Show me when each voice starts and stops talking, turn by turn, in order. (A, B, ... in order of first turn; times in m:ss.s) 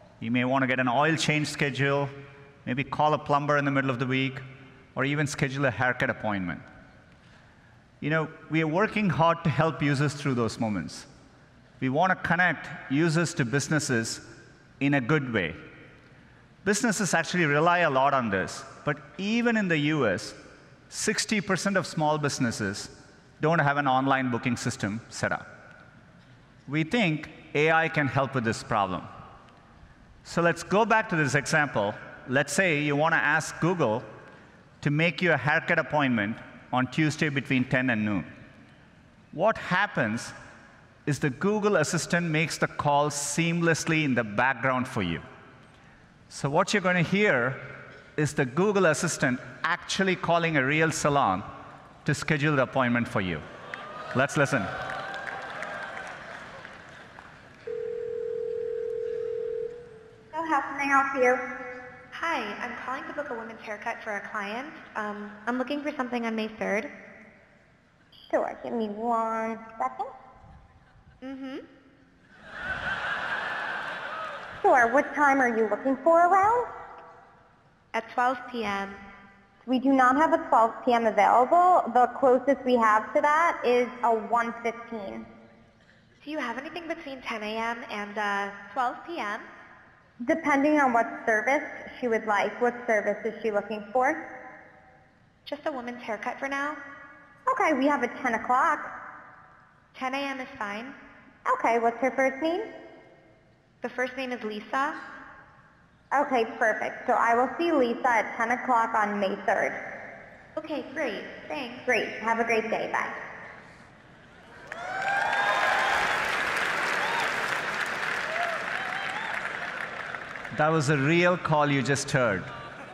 0:00.2-0:02.1 A
0:02.6-0:04.4 A
0:05.0-0:06.6 A
0:08.0-0:11.1 A
0:11.8-0:14.2 A
0:14.8-0:15.6 A
0:16.6-0:20.4 A
0:20.9-0:25.5 A
0:26.7-0:29.1 A
0:30.2-0:34.1 A
0:34.8-0:38.3 A
0:39.3-0:40.3 A
0:41.1-0:45.2 A
0:46.3-0:51.5 A
0:52.0-0:53.4 A
0:54.1-0:54.7 A
1:00.3-1:01.4 B
1:02.1-1:06.9 C
1:08.3-1:10.1 B
1:11.2-1:11.6 C
1:14.6-1:16.7 B
1:17.9-1:19.0 C
1:19.7-1:25.3 B
1:26.2-1:29.5 C
1:30.2-1:34.2 B
1:35.5-1:36.8 C
1:37.5-1:38.9 B
1:40.0-1:41.0 C
1:41.5-1:42.7 B
1:43.8-1:45.0 C
1:46.1-1:49.8 B
1:50.6-1:51.9 C
1:51.9-1:53.2 B
2:00.5-2:02.5 A